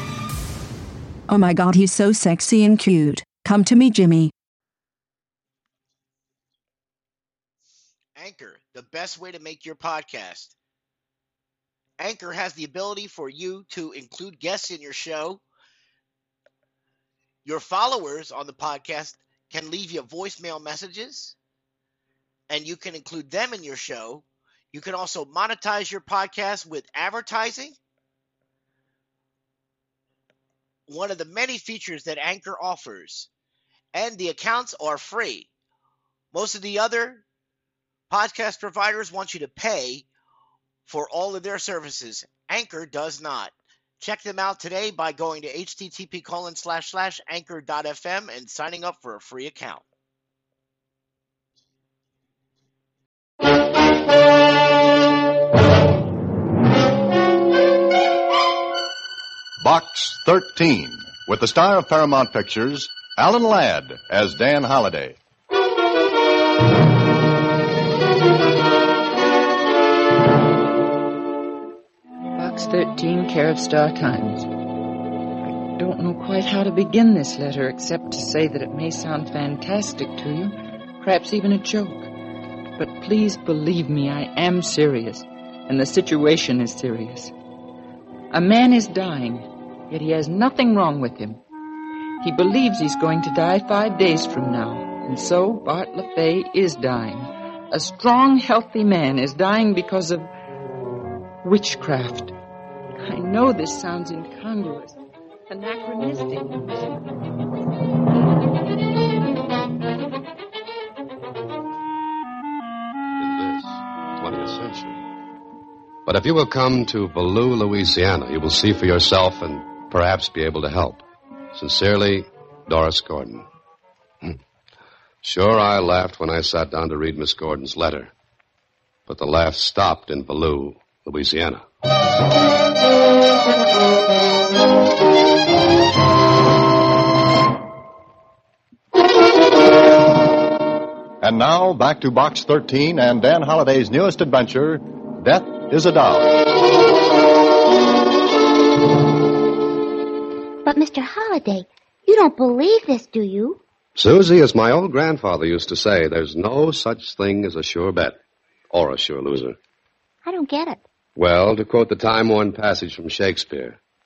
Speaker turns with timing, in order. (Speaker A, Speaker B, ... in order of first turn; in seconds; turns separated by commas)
Speaker A: 1.3-4.3, Speaker B: 8.2-10.5, Speaker B: 12.0-15.4, Speaker B: 17.4-21.4, Speaker B: 22.5-27.8, Speaker B: 30.9-33.3, Speaker B: 33.9-35.5, Speaker B: 36.3-37.2, Speaker B: 38.1-40.0, Speaker B: 40.9-49.8, Speaker C: 59.6-65.2, Speaker D: 72.3-74.5, Speaker D: 75.7-82.1, Speaker D: 82.8-87.3, Speaker D: 88.3-91.4, Speaker D: 92.2-100.3, Speaker D: 101.4-102.3, Speaker D: 103.0-107.2, Speaker E: 113.2-115.0, Speaker E: 116.0-123.5, Speaker E: 125.2-128.1, Speaker E: 129.1-131.6, Speaker C: 141.2-146.4, Speaker F: 150.6-153.6, Speaker E: 153.9-158.2, Speaker E: 158.7-159.6, Speaker F: 160.2-160.8, Speaker E: 161.2-163.8